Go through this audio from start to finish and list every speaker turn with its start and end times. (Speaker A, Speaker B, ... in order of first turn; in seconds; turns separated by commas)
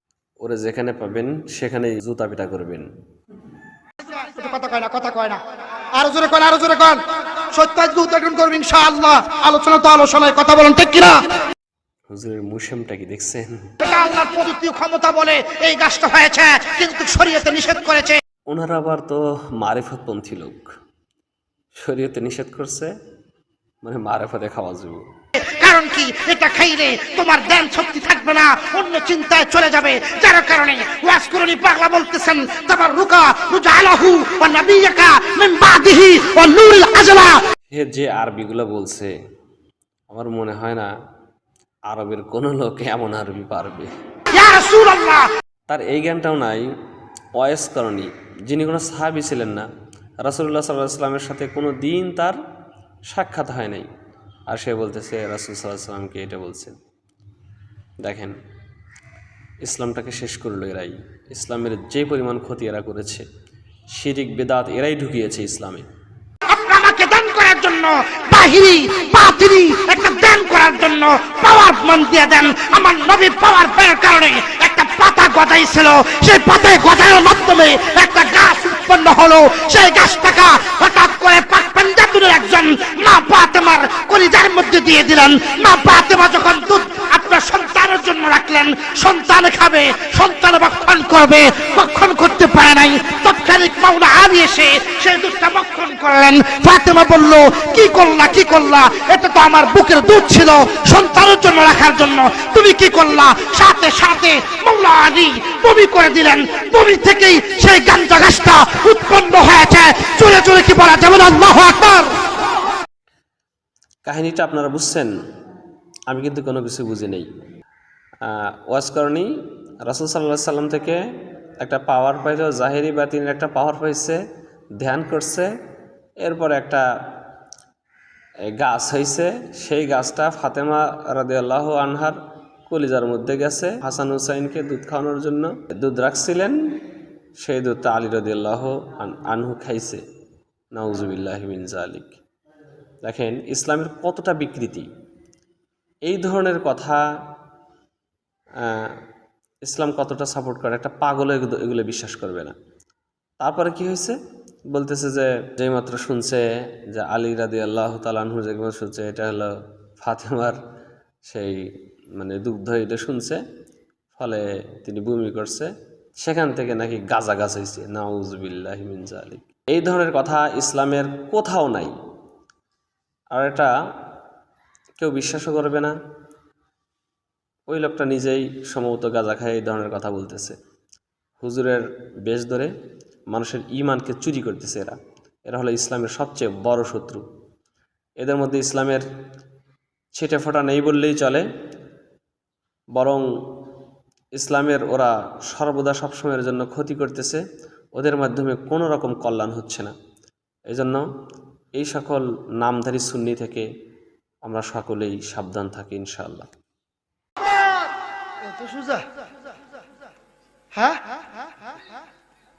Speaker A: 0.4-2.9, Speaker B: 4.2-5.4, Speaker B: 6.0-7.0, Speaker B: 7.5-11.2, Speaker A: 12.1-13.7, Speaker B: 13.8-18.2, Speaker A: 18.5-20.7, Speaker A: 21.8-22.9, Speaker A: 23.8-25.0, Speaker B: 25.4-37.4, Speaker A: 37.7-39.1, Speaker A: 40.1-40.9, Speaker A: 41.9-43.9, Speaker B: 44.3-45.3, Speaker A: 45.7-46.7, Speaker A: 47.4-49.7, Speaker A: 50.2-52.4, Speaker A: 53.1-53.9, Speaker A: 54.5-56.8, Speaker A: 58.0-58.3, Speaker A: 59.6-63.2, Speaker A: 63.9-65.9, Speaker B: 66.5-112.1, Speaker A: 114.1-115.1, Speaker A: 116.1-117.3, Speaker A: 118.2-119.3, Speaker A: 119.8-121.0, Speaker A: 121.6-124.2, Speaker A: 124.8-125.5, Speaker A: 126.2-127.2, Speaker A: 128.4-136.8, Speaker A: 137.4-140.0, Speaker A: 140.7-142.2, Speaker A: 143.0-144.9, Speaker A: 146.1-147.0, Speaker A: 148.6-149.0, Speaker A: 149.6-152.6, Speaker A: 153.4-154.2, Speaker A: 154.7-160.6, Speaker A: 161.2-163.4, Speaker A: 164.2-171.9, Speaker A: 173.3-173.7, Speaker A: 175.0-175.9, Speaker A: 177.7-180.6, Speaker A: 181.4-182.7, Speaker A: 183.3-187.2, Speaker A: 188.2-189.1, Speaker A: 190.1-191.5, Speaker A: 192.9-193.7, Speaker A: 194.3-197.4, Speaker A: 198.0-199.9, Speaker A: 200.7-201.1, Speaker A: 201.8-203.7, Speaker A: 204.4-206.5, Speaker B: 208.4-209.1, Speaker B: 210.7-211.2